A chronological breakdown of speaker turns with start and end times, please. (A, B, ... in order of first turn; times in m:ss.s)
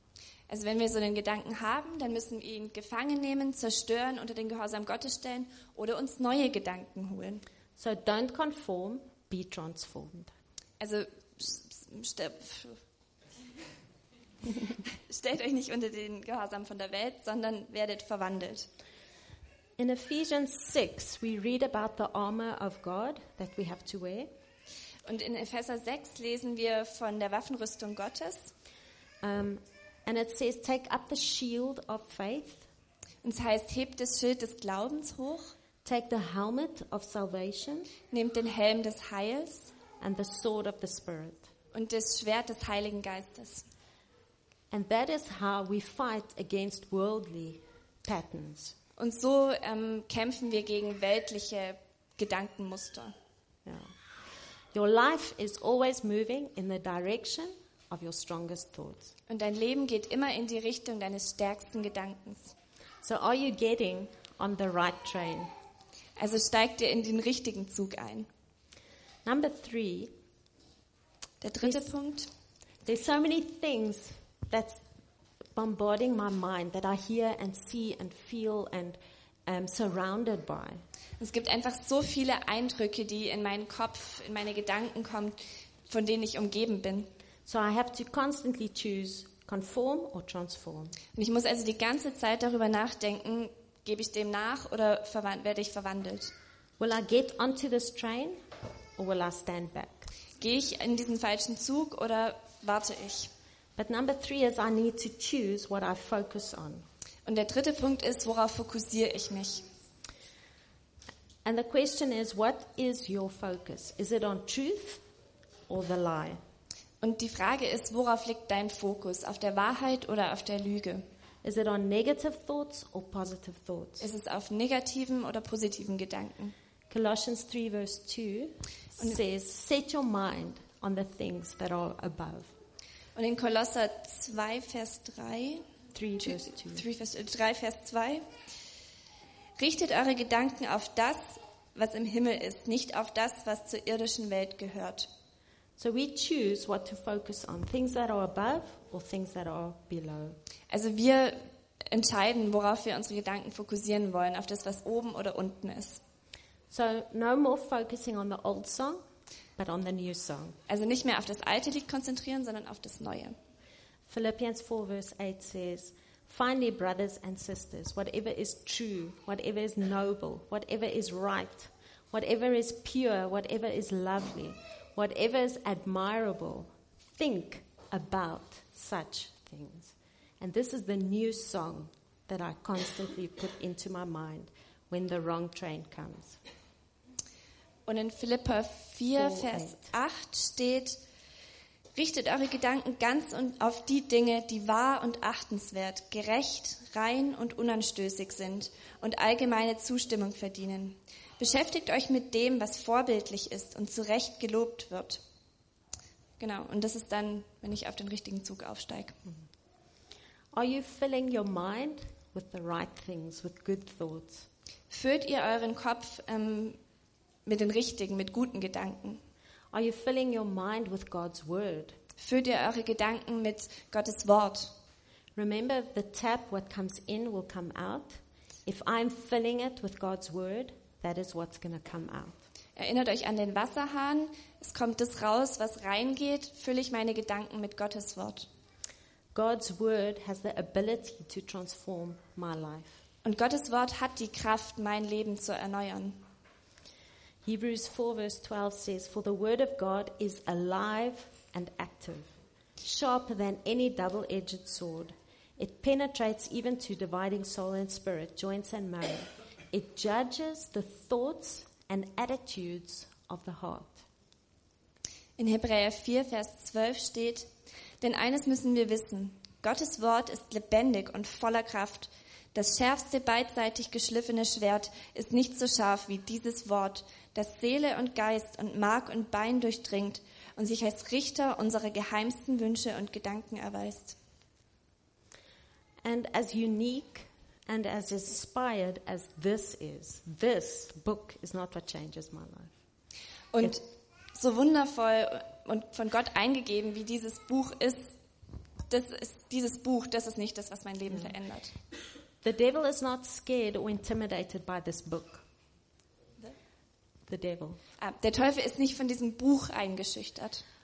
0:00.5-0:07.4 A
0:07.8-0:10.3 B
0:10.8-0:12.8 A
0:14.9-0:18.7 A
0:19.8-0:24.3 B
0:25.0-0:28.5 A
0:29.2-0:32.7 B
0:33.2-0:35.5 A
0:35.8-0:37.9 B
0:38.1-0:39.7 A
0:40.0-0:41.5 B
0:41.7-0:43.6 A
0:44.7-0:48.8 B
0:49.0-0:53.1 A
0:53.6-0:54.0 B
0:54.7-0:59.1 B
0:59.3-1:02.5 A
1:03.0-1:05.5 B
1:06.2-1:08.3 A
1:09.2-1:10.1 B
1:11.4-1:12.3 A
1:12.8-1:14.8 B
1:15.5-1:20.8 B
1:21.2-1:27.1 A
1:27.4-1:31.0 B
1:31.1-1:36.3 A
1:36.8-1:38.4 B
1:39.0-1:40.1 B
1:40.4-1:43.3 A
1:43.8-1:46.8 B
1:47.2-1:49.6 A
1:51.4-1:55.0 B
1:55.7-1:56.4 B
1:57.0-2:01.0 A
2:01.4-2:04.1 B
2:04.0-2:06.5 A
2:06.9-2:12.5 B
2:13.1-2:15.6 A
2:15.9-2:16.8 B
2:16.2-2:18.2 A
2:19.6-2:25.1 A
2:25.8-2:30.4 B
2:30.7-2:36.0 A
2:36.7-2:39.0 B
2:39.6-2:40.6 B
2:40.7-2:43.4 A
2:44.1-3:06.4 B
3:07.9-3:11.0 A
3:09.2-3:09.9 B
3:11.9-3:25.2 A
3:26.4-3:29.2 A
3:30.5-3:34.5 B
3:34.9-3:36.8 A
3:37.4-3:39.2 A
3:39.7-3:42.0 B
3:42.2-3:44.7 A
3:45.4-3:52.4 B
3:52.8-3:58.5 A
3:59.3-4:03.0 B
4:03.2-4:06.2 A
4:07.4-4:24.0 B
4:25.4-4:44.2 A
4:46.0-4:52.7 B
4:53.5-4:53.8 A
4:54.3-4:58.1 A
4:58.9-5:01.7 A
5:02.4-5:05.4 B
5:07.3-5:07.8 B
5:08.0-5:10.6 A